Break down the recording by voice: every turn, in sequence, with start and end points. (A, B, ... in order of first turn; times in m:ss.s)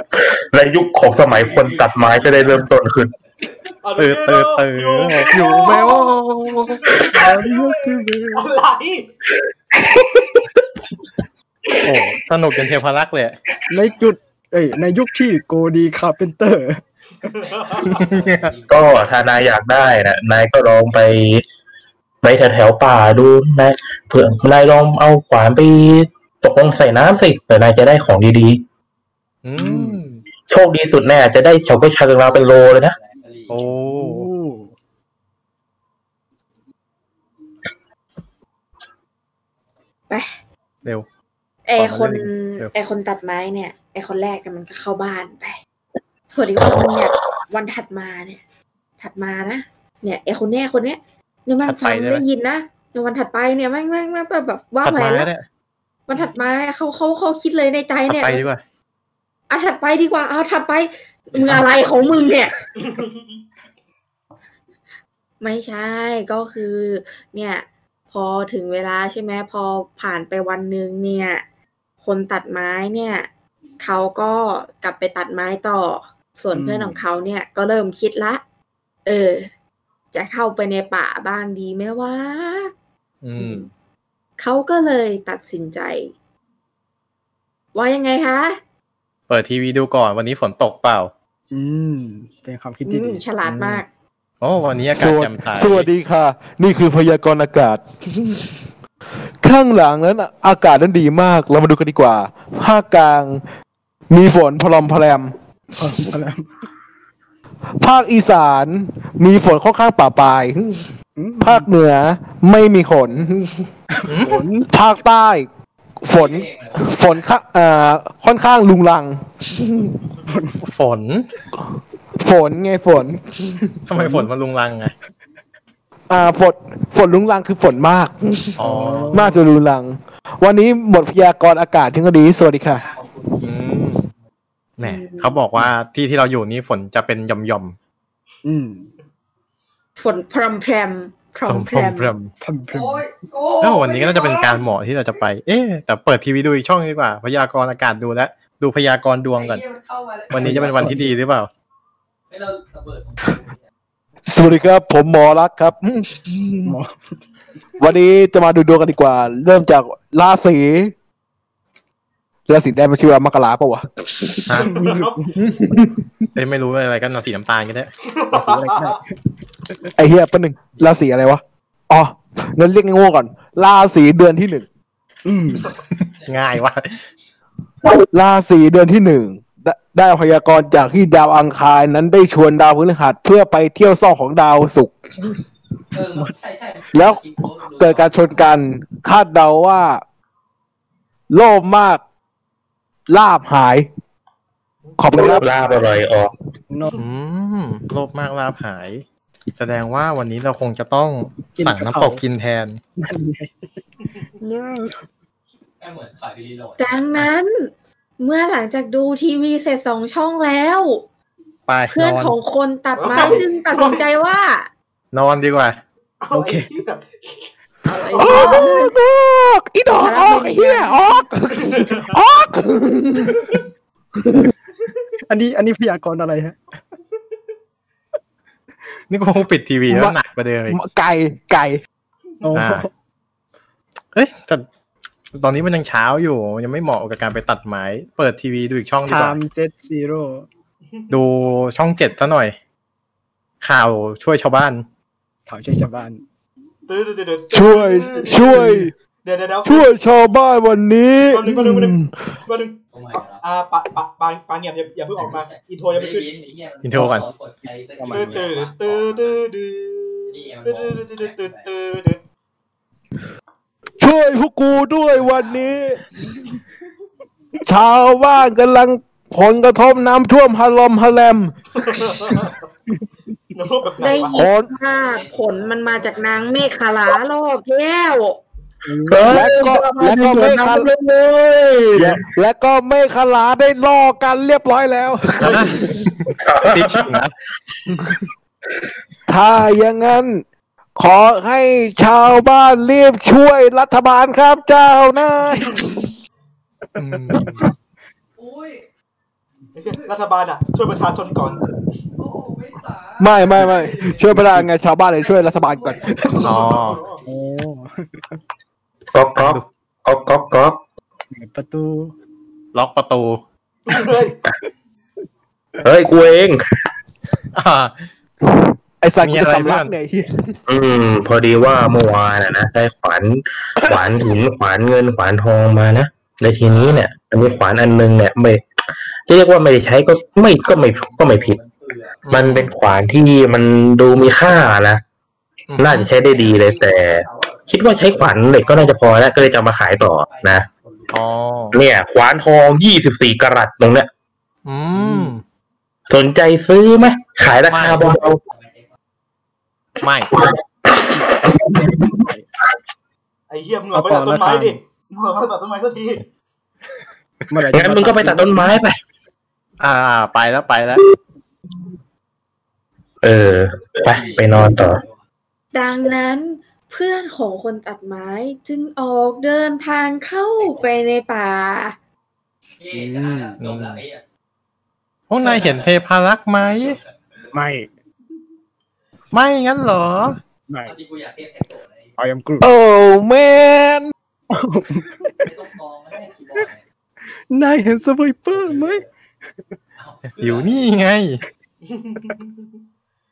0:00.3-0:03.1 A
0:03.8-0:09.1 B
0:04.0-0:06.9 C
0:07.1-0:08.5 D
0:09.8-0:10.2 A
0:11.8-0:13.4 C
0:13.7-0:16.8 D
0:17.3-0:17.9 B
0:17.4-0:19.4 E
0:17.9-0:18.5 C
0:18.7-0:21.4 A
0:22.2-0:28.6 A
0:29.4-0:30.2 C
0:29.6-0:30.0 D
0:30.5-0:33.0 A
0:32.3-0:33.7 E
0:33.5-0:34.3 C
0:33.9-0:34.7 D
0:41.7-0:45.6 F
0:41.8-0:42.7 C
0:46.3-0:48.4 F
0:49.0-0:55.3 F
0:51.6-0:52.2 C
0:54.8-0:55.5 C
0:56.1-0:58.4 F
0:58.1-0:58.6 C
0:59.5-1:02.5 F
1:01.4-1:01.8 C
1:02.8-1:03.4 B
1:05.4-1:11.4 F
1:12.0-1:13.3 F
1:13.8-1:18.4 F
1:16.5-1:17.0 D
1:19.0-1:19.5 F
1:20.1-1:22.7 F
1:23.2-1:23.7 C
1:24.4-1:26.1 F
1:27.8-1:28.6 F
1:29.3-1:31.1 C
1:31.5-1:33.2 D
1:32.9-1:33.9 F
1:33.4-1:33.8 C
1:34.4-1:35.9 C
1:34.9-1:38.5 G
1:39.4-1:43.4 G
1:44.1-1:45.3 G
1:45.8-1:46.5 D
1:47.8-1:53.7 G
1:51.2-1:51.7 D
1:53.9-1:54.7 D
1:54.1-1:54.4 C
1:54.7-1:55.5 G
1:56.0-2:00.0 G
1:56.1-1:57.3 E
2:00.3-2:00.6 D
2:00.6-2:01.3 C
2:02.2-2:03.7 G
2:03.9-2:04.9 C
2:03.9-2:04.3 D
2:06.1-2:08.6 G
2:08.6-2:09.2 C
2:08.6-2:09.4 D
2:09.1-2:12.8 G
2:12.7-2:14.0 E
2:13.4-2:14.1 C
2:14.8-2:17.8 C
2:14.8-2:15.4 F
2:18.4-2:18.9 D
2:20.0-2:22.1 F
2:21.4-2:22.3 C
2:22.4-2:23.0 D
2:22.7-2:24.6 E
2:23.6-2:29.6 C
2:29.3-2:31.0 E
2:30.3-2:31.5 C
2:30.3-2:31.2 D
2:32.3-2:33.6 E
2:34.3-2:36.8 G
2:36.7-2:37.0 D
2:37.8-2:40.9 G
2:42.5-2:44.6 G
2:44.5-2:44.8 C
2:44.6-2:45.3 B
2:44.6-2:45.3 D
2:45.4-2:46.3 G
2:46.4-2:47.9 C
2:48.0-2:49.0 B
2:48.3-2:49.1 D
2:50.0-2:54.7 G
2:55.3-2:55.7 D
2:56.0-2:57.0 C
2:58.1-3:05.0 G
3:05.9-3:08.1 E
3:06.9-3:10.0 G
3:11.3-3:12.0 G
3:13.1-3:13.9 G
3:15.0-3:15.5 G
3:15.1-3:16.3 A
3:16.7-3:17.0 D
3:17.0-3:19.0 C
3:19.6-3:22.8 C
3:21.6-3:22.2 D
3:23.0-3:23.7 D
3:24.4-3:25.0 D
3:25.8-3:26.9 E
3:26.8-3:27.7 F
3:28.2-3:31.0 F
3:31.7-3:32.4 C
3:31.9-3:34.7 F
3:33.0-3:34.1 B
3:33.2-3:33.4 C
3:35.1-3:35.8 C
3:36.2-3:38.7 B
3:36.3-3:36.7 D
3:37.9-3:39.0 F
3:38.0-3:43.6 G
3:40.0-3:41.2 F
3:41.7-3:41.9 B
3:44.2-3:44.5 G
3:45.3-3:46.6 D
3:49.1-3:50.8 C
3:49.9-3:51.8 G
3:52.4-3:52.9 D
3:52.5-3:52.9 C
3:54.1-3:54.7 C
3:55.3-3:59.4 C
3:59.0-4:00.5 D
4:01.1-4:02.6 C
4:03.6-4:04.8 C
4:05.5-4:06.2 D
4:06.9-4:08.7 B
4:07.5-4:08.9 G
4:08.5-4:08.8 D
4:09.2-4:09.9 B
4:09.6-4:12.1 G
4:11.3-4:12.8 B
4:12.9-4:13.4 E
4:13.4-4:16.3 B
4:15.2-4:19.5 E
4:16.8-4:17.3 C
4:18.0-4:18.5 D
4:18.1-4:22.2 B
4:20.3-4:21.7 E
4:24.0-4:26.1 G
4:25.1-4:25.8 E
4:27.7-4:31.6 G
4:31.8-4:32.6 B
4:33.5-4:34.4 B
4:34.0-4:38.4 F
4:34.3-4:34.7 G
4:34.8-4:36.9 E
4:38.9-4:39.5 D
4:39.1-4:42.2 A
4:39.3-4:40.9 G
4:39.7-4:40.7 F
4:42.0-4:46.1 G
4:45.4-4:45.7 B
4:45.5-4:47.3 C
4:46.4-4:47.2 A
4:49.3-4:50.4 G
4:51.0-4:56.0 G
4:57.0-4:57.6 C
4:57.2-4:57.6 D
4:58.4-4:58.8 E
4:59.8-5:01.6 B
5:02.2-5:04.3 E
5:03.2-5:06.4 G
5:04.1-5:04.7 D
5:05.2-5:07.0 E
5:06.3-5:07.2 B
5:06.4-5:07.0 C
5:07.2-5:08.4 D
5:09.1-5:10.8 A
5:09.4-5:09.7 C
5:11.3-5:12.1 D
5:12.7-5:13.4 C
5:13.9-5:14.4 B
5:15.8-5:16.6 A
5:17.5-5:17.9 C
5:18.4-5:20.6 G
5:19.2-5:20.0 C
5:20.7-5:28.6 A
5:23.8-5:24.1 G
5:26.7-5:27.1 E
5:29.3-5:31.6 A
5:29.8-5:32.2 E
5:32.2-5:32.7 C
5:32.3-5:35.0 A
5:35.7-5:36.1 C
5:35.8-5:40.7 A
5:36.1-5:39.3 E
5:40.2-5:41.7 E
5:41.1-5:41.8 C
5:41.7-5:44.1 A
5:44.6-5:45.4 C
5:45.0-5:45.3 D
5:46.1-5:48.4 A
5:47.7-5:48.2 C
5:48.4-5:48.9 E
5:50.0-5:50.3 C
5:50.3-5:52.1 A
5:51.1-5:51.5 D
5:52.1-5:52.5 D
5:53.5-5:56.2 B
5:53.9-5:54.8 D
5:57.5-5:58.8 D
5:57.7-5:59.0 A
5:59.8-6:01.0 C
6:03.2-6:05.0 A
6:04.0-6:05.2 E
6:05.7-6:12.0 F
6:10.6-6:11.0 E
6:12.8-6:14.2 E
6:12.9-6:13.5 D
6:13.6-6:14.0 C
6:15.3-6:17.0 C
6:15.4-6:17.6 E
6:17.5-6:17.9 D
6:19.3-6:20.4 C
6:20.7-6:20.9 D
6:20.8-6:22.2 E
6:22.2-6:22.7 D
6:22.6-6:24.1 G
6:24.5-6:25.5 D
6:25.4-6:26.8 E
6:27.5-6:29.1 D
6:28.5-6:29.1 E
6:30.0-6:30.9 E
6:30.4-6:31.4 C
6:31.8-6:32.7 B